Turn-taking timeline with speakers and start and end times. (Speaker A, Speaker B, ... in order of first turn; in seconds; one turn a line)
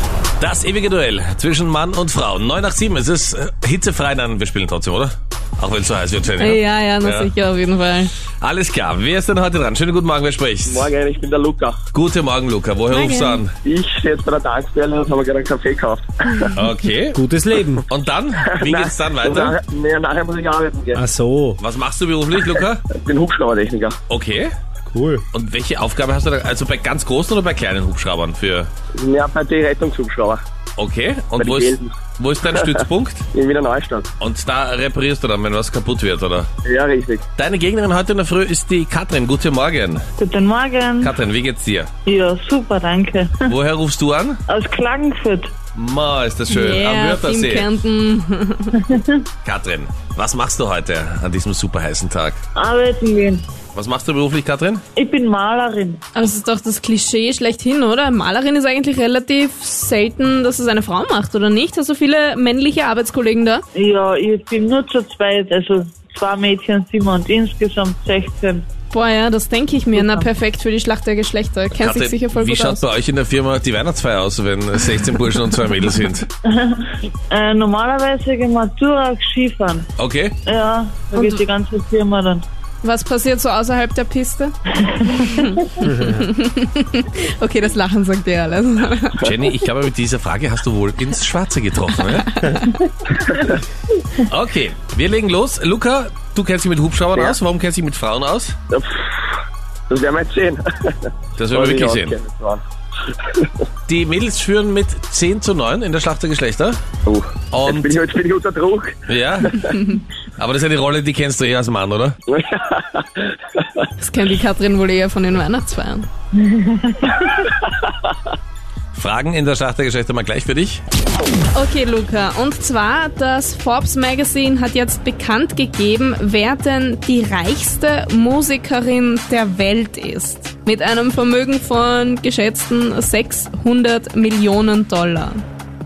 Speaker A: 0.4-7.3
Speaker B: 6.4-8.1
Speaker A: 8.4-10.9
Speaker C: 10.6-11.8
Speaker A: 11.9-13.5
Speaker B: 12.9-13.4
Speaker C: 13.6-16.5
Speaker A: 16.5-17.2
Speaker D: 17.1-17.8
Speaker A: 17.9-19.6
Speaker C: 18.6-21.0
Speaker D: 20.9-21.6
Speaker A: 21.6-22.8
Speaker C: 22.5-24.0
Speaker A: 24.1-24.5
Speaker D: 24.9-25.2
Speaker A: 25.3-28.7
Speaker C: 28.9-30.4
Speaker A: 30.8-33.2
Speaker C: 31.4-31.9
Speaker C: 33.3-34.1
Speaker A: 34.2-36.5
Speaker C: 36.6-37.3
Speaker A: 37.4-40.0
Speaker E: 40.2-41.1
Speaker A: 41.0-41.9
Speaker E: 42.0-43.5
Speaker A: 43.5-44.4
Speaker E: 44.5-45.5
Speaker A: 45.7-47.7
Speaker B: 46.5-48.9
Speaker E: 48.9-49.2
Speaker A: 49.4-52.4
Speaker E: 52.5-53.4
Speaker A: 53.7-54.8
Speaker E: 55.0-56.0
Speaker B: 56.1-63.6
Speaker E: 63.8-68.6
Speaker B: 68.9-72.8
Speaker E: 69.9-70.2
Speaker A: 71.7-76.3
Speaker E: 76.5-79.8
Speaker A: 80.0-80.4
Speaker E: 80.5-82.4
Speaker B: 81.1-81.4
Speaker B: 82.8-84.5
Speaker B: 85.2-89.3
Speaker D: 85.8-86.2
Speaker A: 89.2-92.3
Speaker B: 92.0-92.9
Speaker A: 94.2-98.6
Speaker C: 98.7-99.2
Speaker C: 99.9-102.6
Speaker A: 101.4-102.2
Speaker A: 103.9-106.8
Speaker C: 107.0-109.0
Speaker A: 107.5-108.0
Speaker A: 109.1-109.8
Speaker A: 110.4-112.2
Speaker C: 112.3-113.3
Speaker B: 114.0-116.1
Speaker E: 116.4-117.2
Speaker A: 118.9-120.8
Speaker B: 121.5-135.4